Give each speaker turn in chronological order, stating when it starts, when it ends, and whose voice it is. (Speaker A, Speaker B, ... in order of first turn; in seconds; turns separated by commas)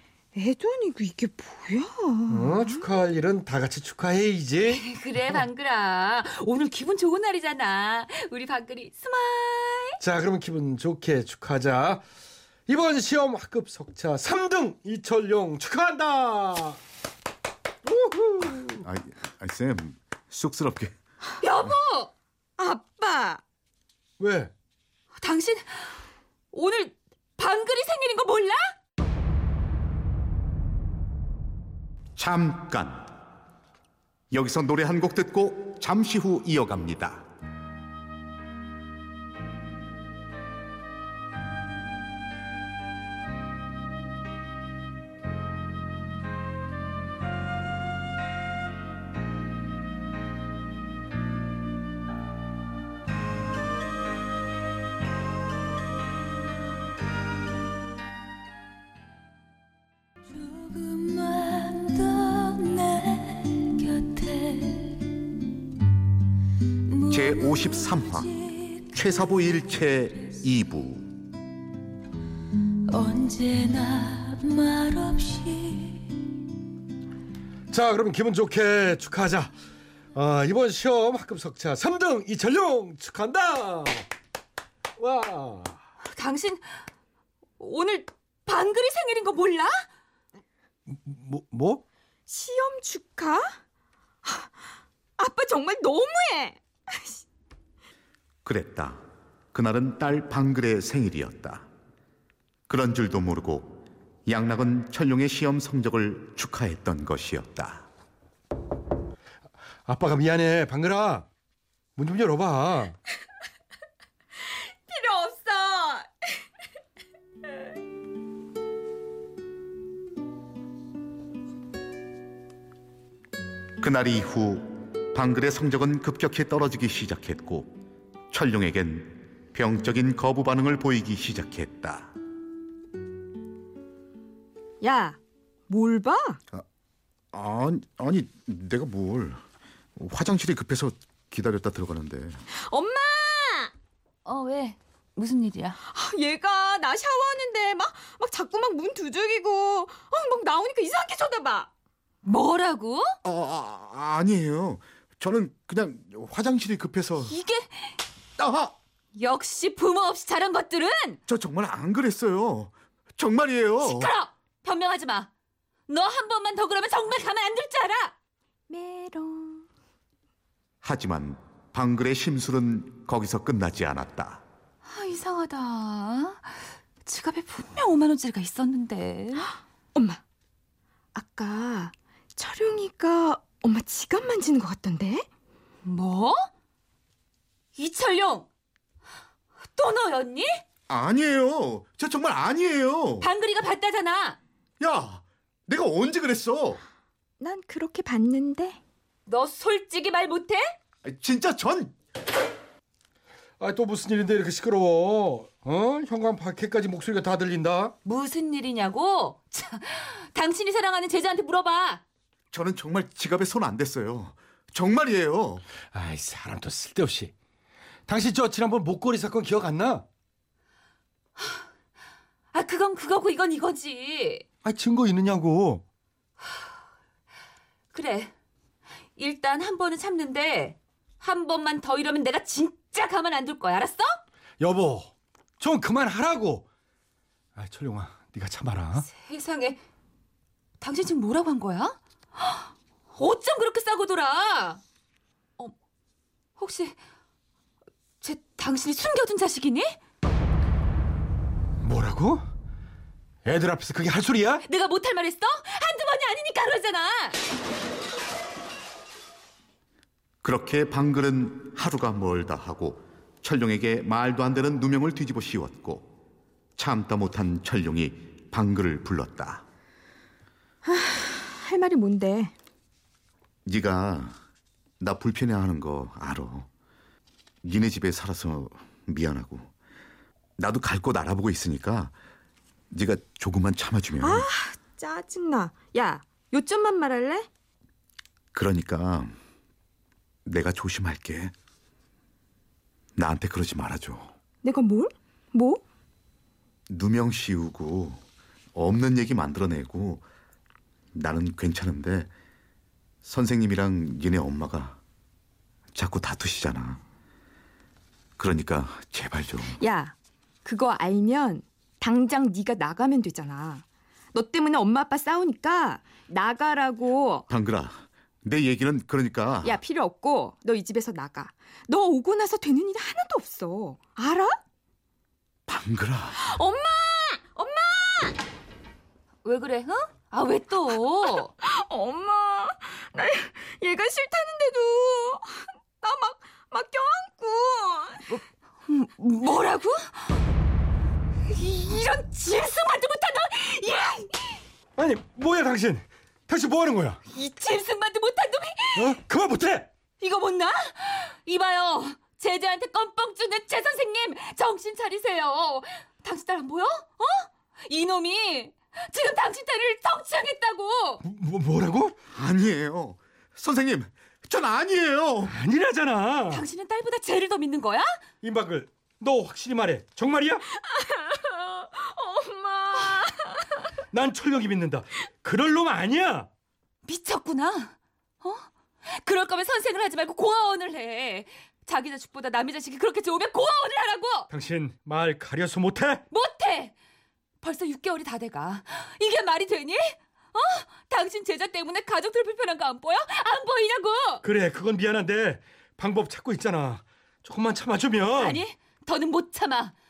Speaker A: 0.3-2.8, Speaker B: 2.3-4.8, Speaker C: 4.7-10.0, Speaker B: 10.0-12.0, Speaker B: 12.7-16.8, Speaker B: 17.9-18.6, Speaker D: 18.6-20.9, Speaker C: 21.4-22.1, Speaker A: 22.6-23.4, Speaker B: 24.2-24.5, Speaker C: 25.2-28.7, Speaker D: 32.1-33.1, Speaker D: 34.3-37.2, Speaker E: 60.7-64.6, Speaker D: 67.0-71.2, Speaker E: 73.1-76.0, Speaker B: 77.7-79.5, Speaker B: 80.1-84.1, Speaker B: 85.0-85.8, Speaker C: 86.1-86.8, Speaker C: 87.6-89.8, Speaker B: 90.9-91.8, Speaker A: 92.3-93.6, Speaker A: 94.2-94.5, Speaker A: 95.2-97.2, Speaker D: 98.5-101.7, Speaker D: 102.7-107.9, Speaker B: 109.9-111.3, Speaker B: 112.0-113.0, Speaker A: 114.6-116.3, Speaker D: 123.8-127.8, Speaker D: 128.3-132.1, Speaker A: 134.8-135.2, Speaker A: 135.7-136.4, Speaker D: 137.3-139.4, Speaker D: 140.0-142.4, Speaker A: 142.6-143.7, Speaker C: 144.2-145.8, Speaker A: 145.8-151.7, Speaker C: 152.2-153.2, Speaker D: 153.2-157.4, Speaker C: 157.3-158.0, Speaker D: 158.4-158.7, Speaker C: 159.1-161.2, Speaker D: 161.3-164.1, Speaker C: 163.8-165.3, Speaker C: 165.9-168.1, Speaker A: 168.7-169.7, Speaker D: 170.8-174.4, Speaker C: 174.8-179.6, Speaker A: 179.9-180.2, Speaker A: 181.1-185.2, Speaker C: 185.8-186.5, Speaker C: 187.8-188.5, Speaker C: 189.7-190.6, Speaker D: 190.9-193.3, Speaker C: 193.2-194.4, Speaker D: 194.8-196.8, Speaker A: 197.4-198.8, Speaker C: 199.3-200.8, Speaker D: 201.0-201.9, Speaker B: 203.6-207.9, Speaker C: 208.1-212.0, Speaker D: 212.5-215.6, Speaker B: 215.9-217.3, Speaker B: 218.1-220.1, Speaker C: 222.5-224.4, Speaker B: 224.6-225.8, Speaker C: 227.9-228.3, Speaker C: 229.2-234.2, Speaker B: 234.6-236.6, Speaker B: 237.6-239.1, Speaker C: 238.9-239.8, Speaker C: 240.8-244.8, Speaker C: 246.6-247.0, Speaker C: 248.2-250.0, Speaker B: 251.8-252.4, Speaker B: 253.4-254.6, Speaker C: 254.6-257.4, Speaker D: 260.4-266.1, Speaker D: 266.8-269.6, Speaker A: 270.8-272.5, Speaker D: 273.6-274.4, Speaker D: 275.0-276.7, Speaker D: 277.6-279.7, Speaker D: 280.6-282.1, Speaker D: 282.9-284.5, Speaker A: 284.2-287.5, Speaker D: 288.5-289.4, Speaker D: 290.5-291.5, Speaker D: 293.2-294.3, Speaker A: 294.6-295.8, Speaker D: 296.9-298.2, Speaker D: 298.8-300.2, Speaker D: 301.1-302.3, Speaker D: 303.2-305.0, Speaker D: 305.9-307.0, Speaker D: 308.4-309.8, Speaker A: 309.7-317.5, Speaker D: 317.5-319.8, Speaker A: 319.6-324.6, Speaker D: 325.7-326.4, Speaker A: 326.4-328.4, Speaker C: 329.4-331.5, Speaker A: 331.6-338.3, Speaker C: 338.3-340.4, Speaker C: 341.5-344.6, Speaker B: 345.0-347.2, Speaker C: 347.3-349.2, Speaker B: 348.9-349.9, Speaker C: 350.2-361.2, Speaker B: 361.2-362.1, Speaker D: 362.3-365.6, Speaker B: 365.4-366.6, Speaker C: 366.5-368.2, Speaker B: 368.4-370.6, Speaker A: 370.7-373.8, Speaker B: 374.1-376.5, Speaker C: 377.1-384.5, Speaker B: 384.5-386.2, Speaker C: 386.3-386.9, Speaker C: 387.6-394.4, Speaker B: 394.4-398.6, Speaker C: 398.4-399.9